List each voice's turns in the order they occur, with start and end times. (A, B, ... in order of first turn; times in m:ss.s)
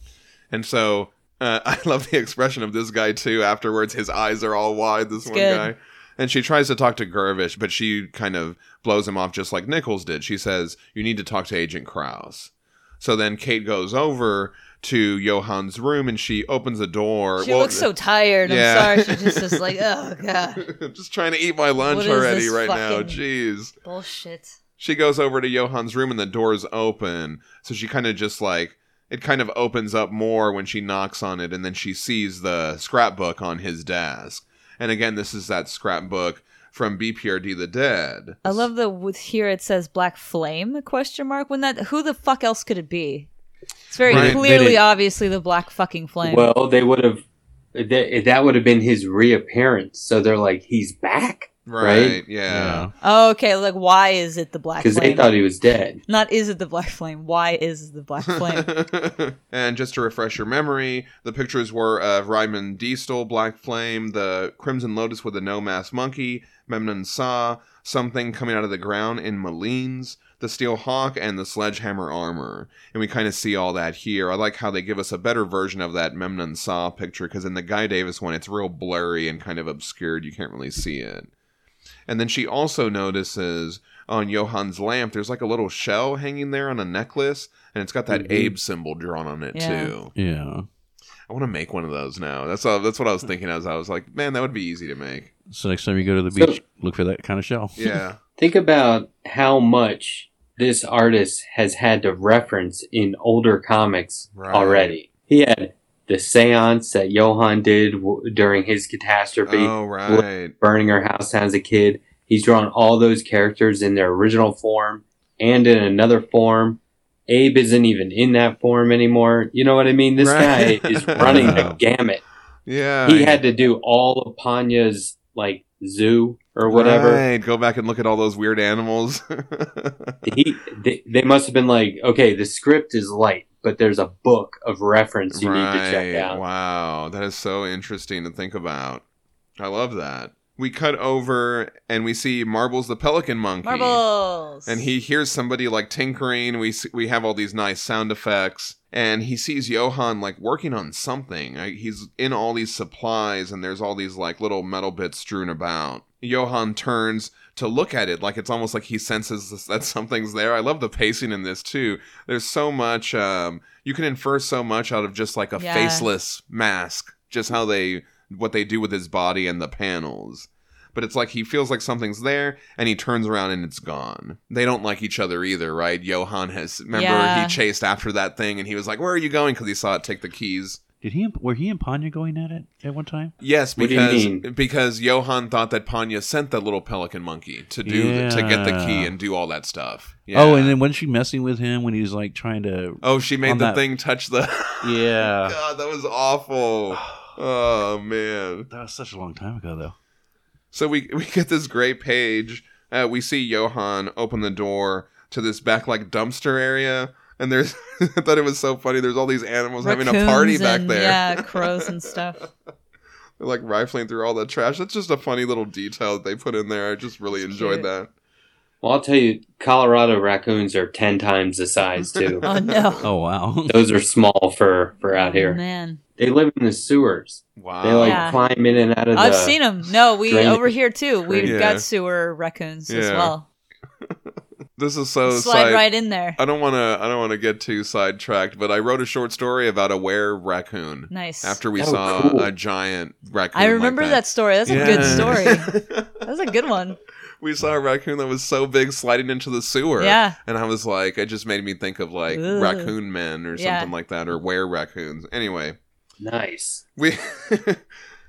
0:00.5-0:17.9 A
0:05.2-0:05.7 B
0:17.4-0:20.7 B
0:18.4-0:19.7 A
0:20.6-0:23.7 A
0:21.8-0:23.2 B
0:23.8-0:24.6 B
0:24.8-0:38.7 A
0:38.4-0:43.3 B
0:43.9-0:46.5 B
0:44.0-0:44.8 C
0:44.1-0:44.4 A
0:46.2-0:52.2 D
0:51.6-0:52.9 A
0:52.5-0:52.9 C
0:53.0-0:55.3 B
0:54.8-0:56.0 D
0:56.1-0:58.7 B
0:58.3-1:21.3 A
1:22.1-1:30.1 A
1:28.1-1:28.5 C
1:29.5-1:29.9 B
1:30.1-1:30.7 C
1:31.3-1:35.3 A
1:35.5-1:38.0 C
1:36.3-1:36.6 D
1:37.8-1:38.2 A
1:38.4-2:02.2 D
1:44.3-1:45.0 A
1:49.4-1:50.5 A
2:00.2-2:01.8 A
2:01.2-2:01.7 C
2:02.6-2:03.4 A
2:03.0-2:07.2 D
2:06.7-2:10.2 A
2:10.2-2:16.4 D
2:15.3-2:19.0 A
2:19.6-2:24.0 A
2:23.6-2:24.8 B
2:24.6-3:00.8 A
2:45.6-2:46.1 B
2:56.9-2:57.6 B
3:01.0-3:03.3 C
3:03.4-3:10.8 A
3:03.8-3:04.4 D
3:07.8-3:09.1 C
3:10.3-3:13.8 C
3:13.0-3:18.7 A
3:14.8-3:15.6 C
3:16.9-3:17.3 C
3:18.7-3:19.9 C
3:20.7-3:32.1 A
3:29.8-3:32.5 B
3:33.4-3:38.1 A
3:37.4-3:37.9 B
3:38.8-3:42.5 D
3:42.2-3:43.0 A
3:42.4-3:43.0 B
3:43.0-3:43.8 C
3:43.7-3:45.6 D
3:45.1-3:46.0 B
3:46.2-3:49.6 D
3:47.6-3:48.5 A
3:48.0-3:48.4 B
3:49.1-3:53.4 B
3:50.2-3:50.7 D
3:51.2-3:51.5 D
3:51.4-3:51.8 A
3:52.9-3:53.3 A
3:54.8-4:06.2 A
3:55.3-3:56.4 B
4:01.1-4:01.6 B
4:01.8-4:02.5 D
4:03.5-4:07.0 B
4:04.7-4:05.4 C
4:07.4-4:15.8 A
4:10.0-4:10.4 B
4:12.3-4:12.9 B
4:13.6-4:13.9 B
4:16.2-4:16.8 D
4:17.0-4:17.8 A